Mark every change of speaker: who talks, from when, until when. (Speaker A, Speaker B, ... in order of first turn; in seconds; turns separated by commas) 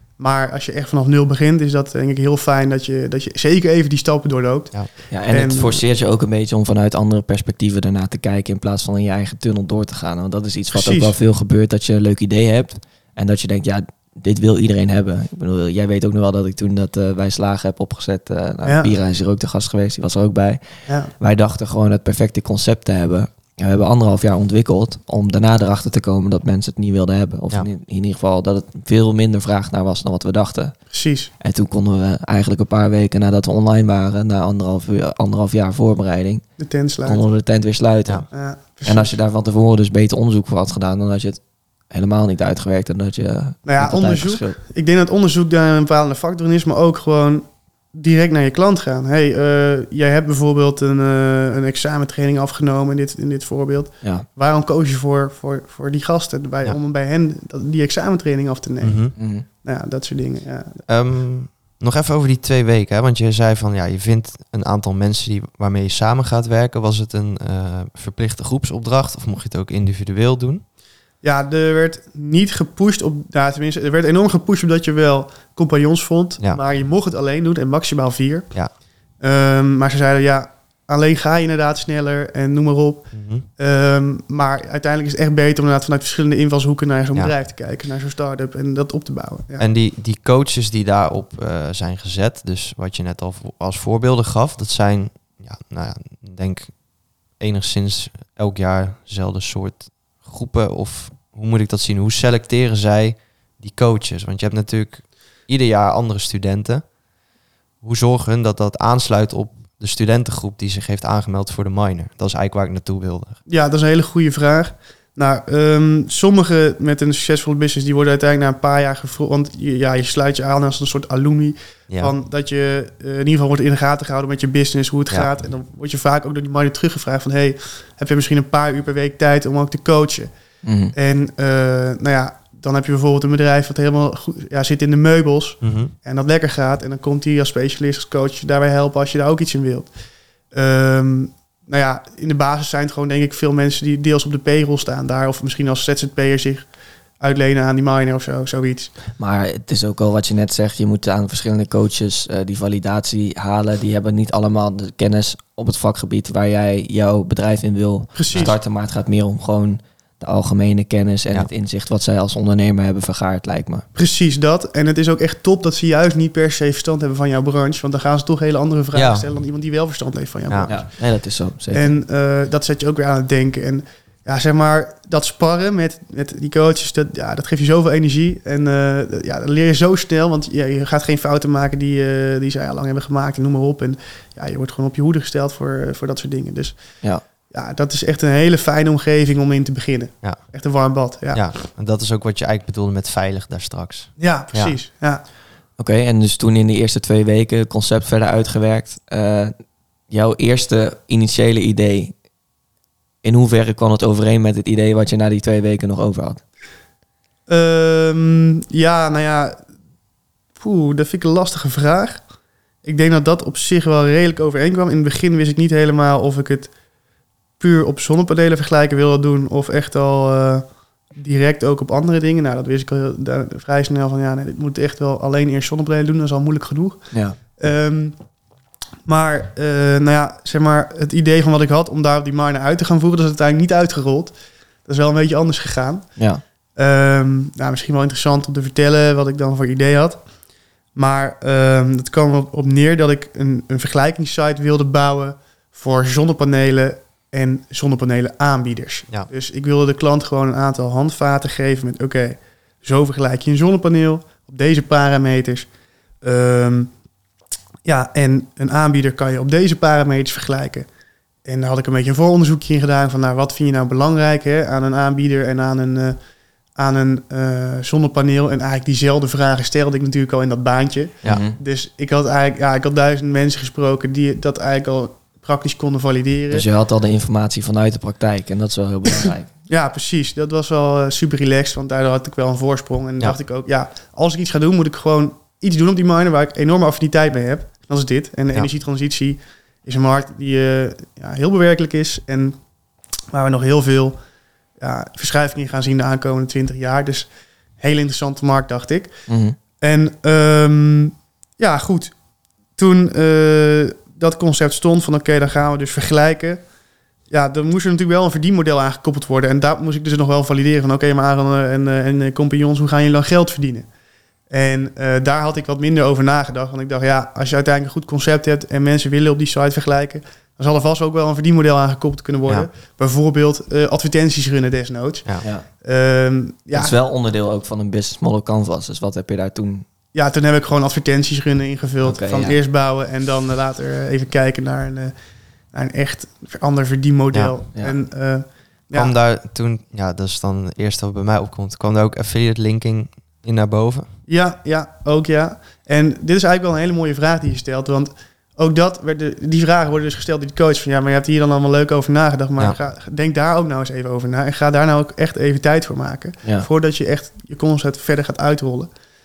Speaker A: 0.2-5.8, Speaker B: 5.1-30.8, Speaker A: 10.7-11.2, Speaker A: 18.6-18.9, Speaker A: 20.9-21.1, Speaker A: 30.9-31.3, Speaker B: 31.4-36.5, Speaker A: 36.6-37.2, Speaker B: 37.0-44.6, Speaker A: 38.3-39.2, Speaker A: 43.6-60.8, Speaker C: 58.8-59.1, Speaker B: 59.2-59.5, Speaker C: 60.9-70.6, Speaker A: 71.2-78.5, Speaker A: 79.2-89.6, Speaker C: 83.1-83.5, Speaker C: 89.6-96.8, Speaker C: 97.4-106.9, Speaker C: 107.8-113.4, Speaker A: 113.5-130.3, Speaker B: 130.6-130.9, Speaker A: 130.9-139.9, Speaker C: 135.6-135.9, Speaker A: 140.5-146.7, Speaker A: 147.2-148.9, Speaker B: 149.2-163.8, Speaker A: 158.2-158.6, Speaker A: 163.9-170.9, Speaker C: 168.9-169.3, Speaker B: 170.7-171.9, Speaker A: 171.7-186.8, Speaker A: 187.5-191.5, Speaker C: 190.2-190.5, Speaker C: 191.3-194.8, Speaker A: 194.2-195.2, Speaker B: 195.8-199.5, Speaker B: 200.1-202.1, Speaker B: 203.2-206.4, Speaker A: 207.5-209.6, Speaker A: 210.6-212.2, Speaker A: 212.8-216.7, Speaker A: 217.6-227.1, Speaker B: 227.1-227.4, Speaker A: 227.6-228.2, Speaker A: 229.1-234.3, Speaker A: 234.8-236.1, Speaker A: 236.8-240.2, Speaker A: 240.9-255.7, Speaker A: 256.2-256.9, Speaker A: 257.9-260.9, Speaker A: 261.4-266.2, Speaker A: 266.8-276.6, Speaker B: 271.2-271.6, Speaker B: 276.5-279.5, Speaker A: 279.2-292.6, Speaker A: 293.3-294.2, Speaker A: 294.8-299.1, Speaker B: 299.3-299.6, Speaker A: 299.8-302.1, Speaker A: 302.8-306.6, Speaker A: 307.3-313.9, Speaker A: 314.5-326.9, Speaker B: 326.7-329.9, Speaker A: 330.1-335.1, Speaker B: 332.1-332.6, Speaker A: 335.7-339.1, Speaker C: 338.9-344.1, Speaker A: 344.3-358.9